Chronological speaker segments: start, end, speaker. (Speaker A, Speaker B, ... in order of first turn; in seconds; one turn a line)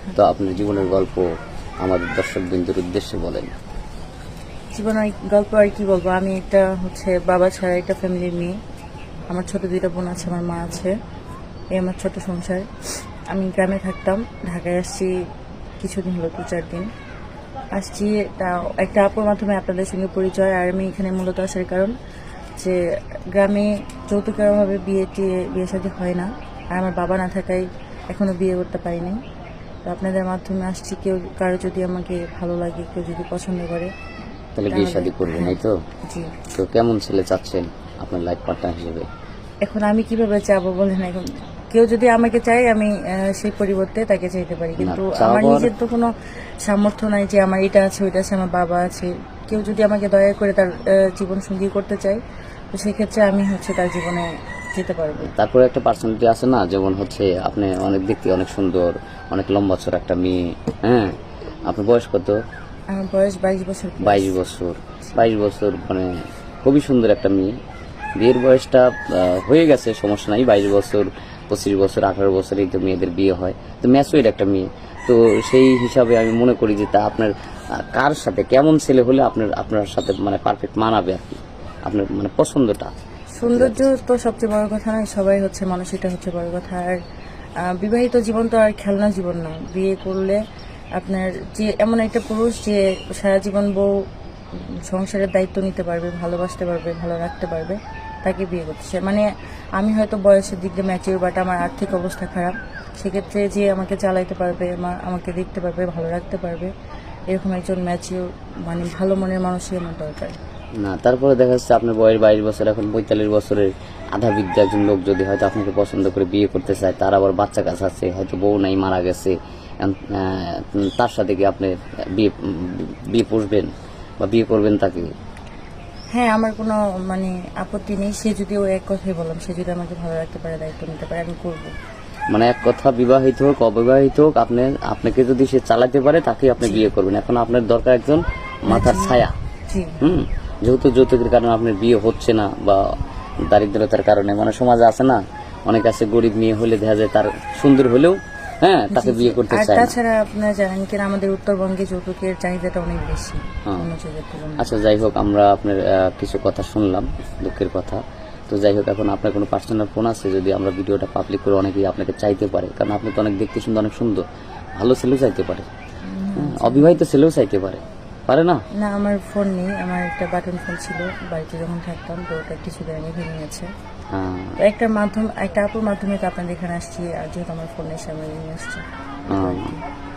Speaker A: 0.1-1.2
Speaker A: 1.8-3.5
Speaker B: 4.7-8.6
Speaker B: 9.3-10.9
Speaker B: 11.7-12.7
Speaker B: 13.3-15.1
Speaker B: 15.8-16.9
Speaker B: 17.8-21.9
Speaker B: 23.3-29.2
Speaker B: 29.9-33.9
Speaker A: 34.5-35.8
Speaker B: 34.7-36.3
Speaker A: 36.5-39.1
Speaker B: 39.6-46.1
Speaker A: 44.8-45.7
Speaker B: 46.6-52.2
Speaker B: 52.7-55.3
Speaker A: 55.2-62.4
Speaker B: 62.9-64.3
Speaker A: 64.0-67.5
Speaker A: 68.2-82.9
Speaker B: 83.4-87.0
Speaker A: 83.4-83.8
Speaker B: 87.6-90.4
Speaker B: 91.0-93.9
Speaker B: 94.5-99.2
Speaker B: 99.8-106.7
Speaker B: 107.3-110.4
Speaker A: 110.8-125.1
Speaker B: 126.1-131.7
Speaker A: 132.3-139.3
Speaker B: 138.7-140.0
Speaker A: 140.0-142.8
Speaker A: 143.5-149.9
Speaker B: 148.9-154.7
Speaker A: 154.6-164.2
Speaker A: 164.8-165.7
Speaker B: 166.0-167.0
Speaker A: 166.3-168.6
Speaker B: 168.8-173.7
Speaker A: 174.1-174.6
Speaker B: 174.6-179.8
Speaker A: 179.3-179.7